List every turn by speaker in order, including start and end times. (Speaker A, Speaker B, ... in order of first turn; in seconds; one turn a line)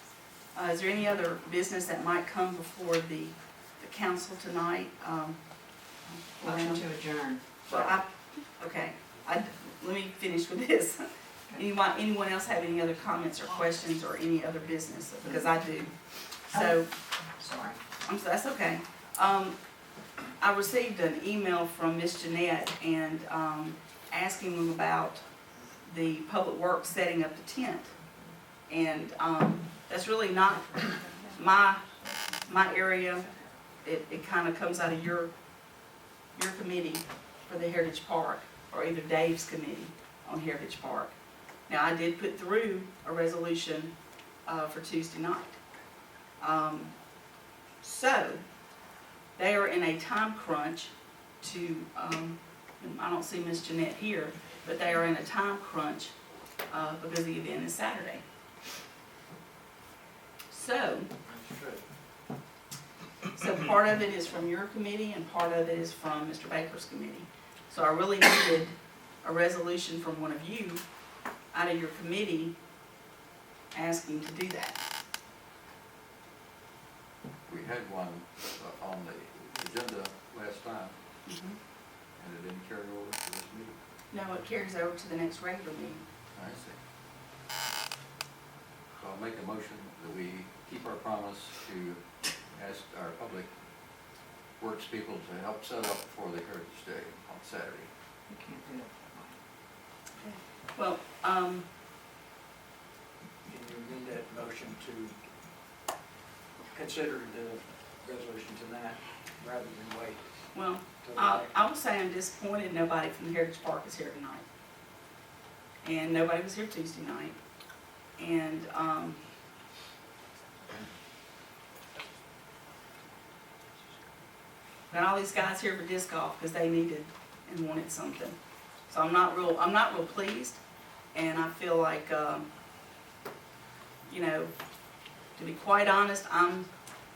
Speaker A: 0.5-6.9
Speaker B: 6.4-7.4
Speaker C: 7.6-8.0
Speaker A: 7.7-16.9
Speaker B: 17.3-17.8
Speaker A: 18.0-19.6
Speaker A: 20.4-25.2
Speaker A: 25.8-27.9
Speaker A: 28.7-31.8
Speaker B: 30.9-31.2
Speaker B: 31.8-32.1
Speaker A: 32.4-33.3
Speaker A: 33.8-35.3
Speaker A: 36.3-43.9
Speaker A: 44.5-45.6
Speaker A: 46.4-47.0
Speaker A: 47.8-48.4
Speaker A: 49.4-56.1
Speaker A: 56.7-58.2
Speaker A: 60.5-61.1
Speaker C: 61.2-61.8
Speaker A: 63.3-70.8
Speaker A: 71.5-72.6
Speaker A: 73.7-74.8
Speaker D: 77.5-80.9
Speaker A: 81.2-81.6
Speaker D: 82.2-83.7
Speaker A: 84.1-86.0
Speaker D: 86.3-86.8
Speaker D: 88.9-93.5
Speaker D: 94.6-97.9
Speaker B: 98.3-99.3
Speaker A: 100.2-101.7
Speaker C: 103.5-105.2
Speaker C: 106.7-110.3
Speaker A: 110.5-114.4
Speaker C: 111.0-111.5
Speaker A: 115.8-117.4
Speaker A: 118.2-119.2
Speaker A: 124.9-130.6
Speaker A: 131.1-132.5
Speaker A: 134.1-134.5
Speaker A: 135.3-136.7